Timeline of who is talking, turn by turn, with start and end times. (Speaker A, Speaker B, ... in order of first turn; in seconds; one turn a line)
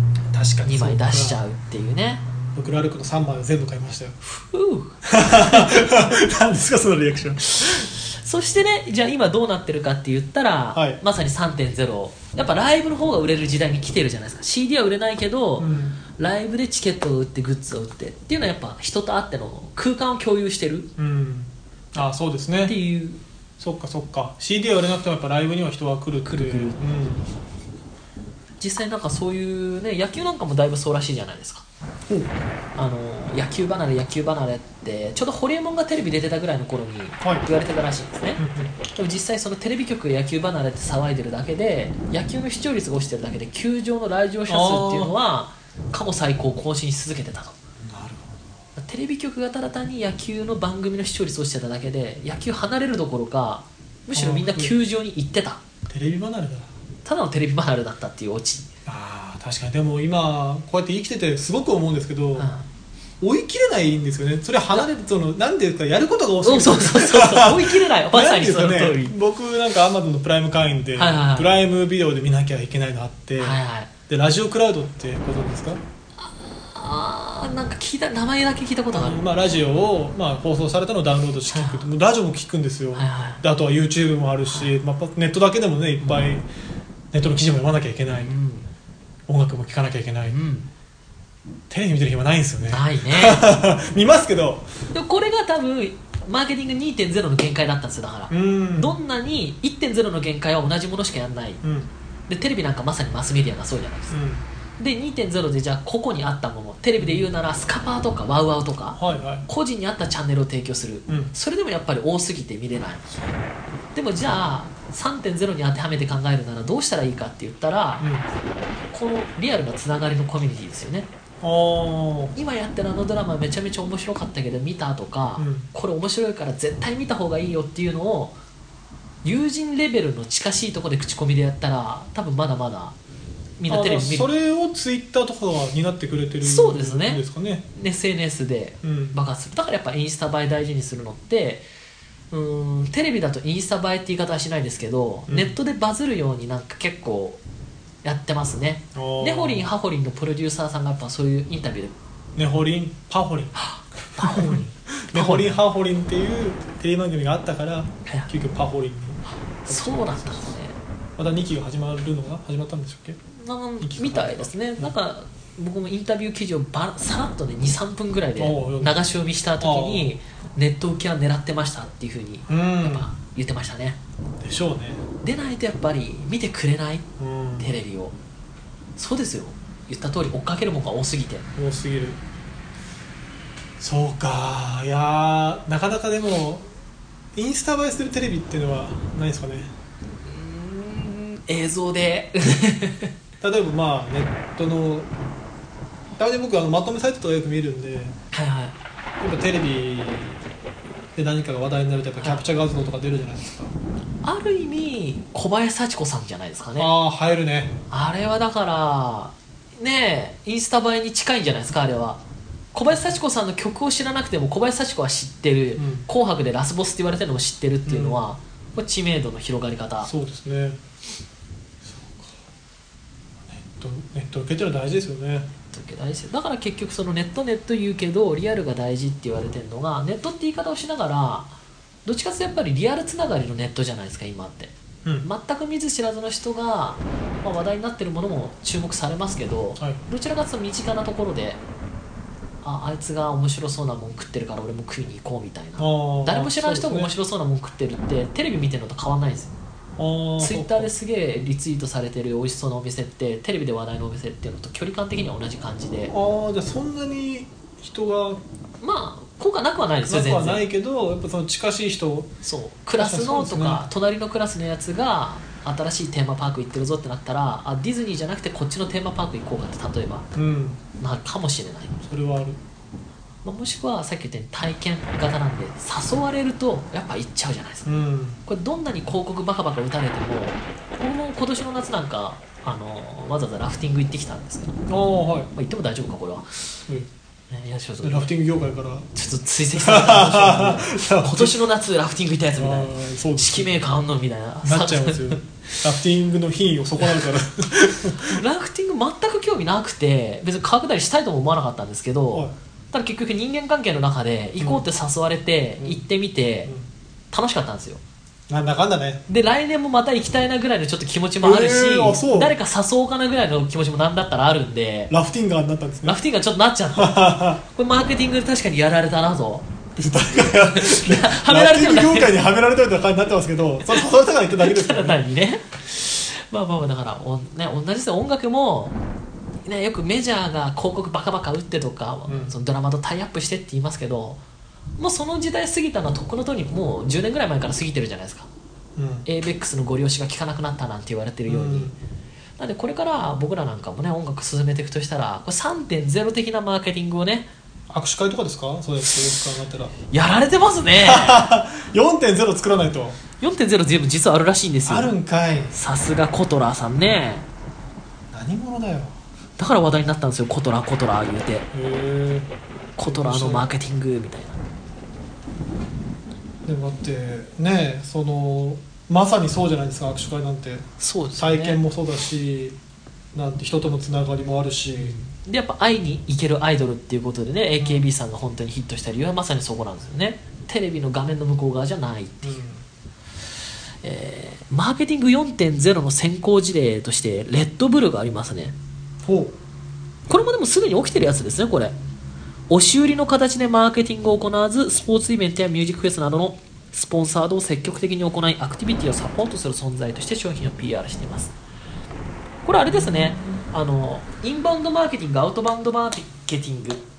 Speaker A: 0.3-1.4
Speaker B: 0.7-2.2
Speaker A: 2.5-4.2
Speaker B: 4.2-6.0
Speaker A: 5.1-7.4
Speaker B: 7.5-20.9
Speaker A: 10.7-11.0
Speaker A: 15.6-16.0
Speaker A: 21.0-22.8
Speaker B: 22.6-23.2
Speaker A: 23.6-27.2
Speaker B: 26.2-26.8
Speaker B: 28.6-31.6
Speaker A: 32.1-32.4
Speaker B: 32.7-47.6
Speaker A: 37.2-37.5
Speaker A: 38.4-38.7
Speaker A: 44.5-45.1
Speaker A: 47.8-48.5
Speaker B: 48.8-55.6
Speaker A: 54.1-54.7
Speaker A: 55.9-56.7
Speaker B: 57.0-58.7
Speaker A: 58.9-62.5
Speaker B: 62.4-62.6
Speaker A: 63.2-75.8
Speaker B: 66.4-69.1
Speaker B: 71.0-71.5
Speaker B: 73.4-73.9
Speaker B: 76.2-79.2
Speaker A: 78.9-86.5
Speaker B: 81.5-81.9
Speaker B: 82.9-83.4
Speaker B: 86.0-86.3
Speaker A: 87.1-88.4
Speaker B: 88.1-88.7
Speaker A: 89.3-90.4
Speaker B: 90.3-90.7
Speaker A: 91.7-94.7
Speaker B: 92.7-93.4
Speaker B: 94.9-101.6
Speaker A: 98.3-99.0
Speaker A: 101.6-101.9
Speaker B: 102.3-104.2
Speaker A: 104.1-104.4
Speaker B: 104.8-113.1
Speaker A: 107.0-107.3
Speaker A: 109.0-109.5
Speaker A: 111.1-111.3
Speaker B: 113.9-118.1
Speaker A: 118.0-118.3
Speaker B: 118.9-121.1
Speaker A: 121.4-122.3
Speaker B: 122.3-128.3
Speaker A: 125.4-125.7
Speaker B: 129.2-132.9
Speaker B: 133.6-134.3
Speaker A: 133.7-137.6
Speaker B: 136.4-137.2
Speaker B: 137.7-141.7
Speaker A: 138.8-139.2
Speaker B: 142.3-147.4
Speaker A: 145.3-145.6
Speaker B: 148.0-151.9
Speaker A: 148.9-149.7
Speaker A: 152.3-153.5
Speaker B: 153.6-155.6
Speaker A: 154.2-160.6
Speaker B: 159.6-160.8
Speaker A: 161.2-163.2
Speaker B: 163.3-174.0
Speaker A: 163.8-164.9
Speaker A: 168.4-169.0
Speaker A: 169.6-170.1
Speaker A: 172.5-173.1
Speaker A: 174.4-175.0
Speaker B: 175.2-177.1
Speaker A: 177.2-177.8
Speaker B: 177.6-178.2
Speaker B: 178.9-181.5
Speaker A: 181.6-182.2
Speaker A: 183.8-186.7
Speaker A: 187.3-189.7
Speaker B: 190.2-193.1
Speaker A: 193.4-195.1
Speaker A: 196.2-198.2
Speaker B: 198.3-198.8
Speaker A: 199.2-200.4
Speaker A: 201.2-203.7
Speaker B: 202.2-202.4
Speaker B: 204.2-206.9
Speaker A: 206.8-207.8
Speaker B: 207.9-212.2
Speaker B: 212.7-220.1
Speaker A: 215.8-216.1
Speaker A: 217.8-218.2
Speaker A: 220.0-220.8
Speaker A: 221.8-222.4
Speaker A: 223.4-225.5
Speaker B: 225.7-231.5
Speaker B: 232.0-241.6
Speaker B: 242.6-249.5
Speaker A: 245.8-247.1
Speaker A: 250.0-250.9
Speaker B: 250.4-256.1
Speaker A: 256.1-258.4
Speaker B: 258.8-260.6
Speaker A: 260.1-262.3
Speaker B: 262.4-270.3
Speaker A: 263.0-263.9
Speaker A: 270.3-270.8
Speaker B: 271.0-272.0
Speaker A: 272.0-272.6
Speaker B: 273.4-277.9
Speaker A: 277.8-278.4
Speaker B: 278.4-284.8
Speaker A: 284.9-285.5
Speaker B: 285.5-286.7
Speaker B: 287.5-288.3
Speaker A: 288.0-289.1
Speaker B: 289.1-295.8
Speaker A: 289.7-291.6
Speaker A: 292.5-293.8
Speaker A: 294.6-298.4
Speaker B: 298.2-306.7
Speaker A: 304.6-304.8
Speaker A: 305.8-306.0
Speaker B: 307.3-308.0
Speaker A: 308.5-309.2
Speaker B: 309.3-315.1
Speaker A: 311.4-312.5
Speaker A: 315.1-316.2
Speaker B: 316.0-322.4
Speaker A: 316.9-317.6
Speaker A: 319.9-325.3
Speaker B: 323.9-329.0
Speaker B: 329.6-334.4
Speaker A: 332.3-332.5
Speaker B: 335.0-338.5
Speaker A: 338.9-339.3
Speaker B: 339.2-341.9
Speaker A: 341.5-342.0
Speaker B: 342.6-347.5
Speaker A: 347.9-349.9
Speaker B: 350.1-351.5
Speaker A: 350.9-353.2
Speaker B: 353.4-355.1
Speaker A: 354.9-355.7
Speaker B: 355.7-357.4
Speaker A: 358.3-359.2
Speaker B: 359.6-361.7
Speaker A: 361.7-362.5
Speaker B: 363.0-364.6
Speaker A: 363.0-363.7
Speaker A: 366.6-372.8
Speaker B: 371.0-371.8
Speaker A: 373.3-375.2
Speaker B: 375.0-382.6
Speaker A: 377.8-378.1
Speaker A: 382.4-382.8
Speaker B: 384.0-388.7
Speaker A: 389.2-389.5
Speaker B: 390.3-391.9
Speaker B: 392.7-401.5
Speaker B: 402.6-407.0
Speaker A: 402.9-403.6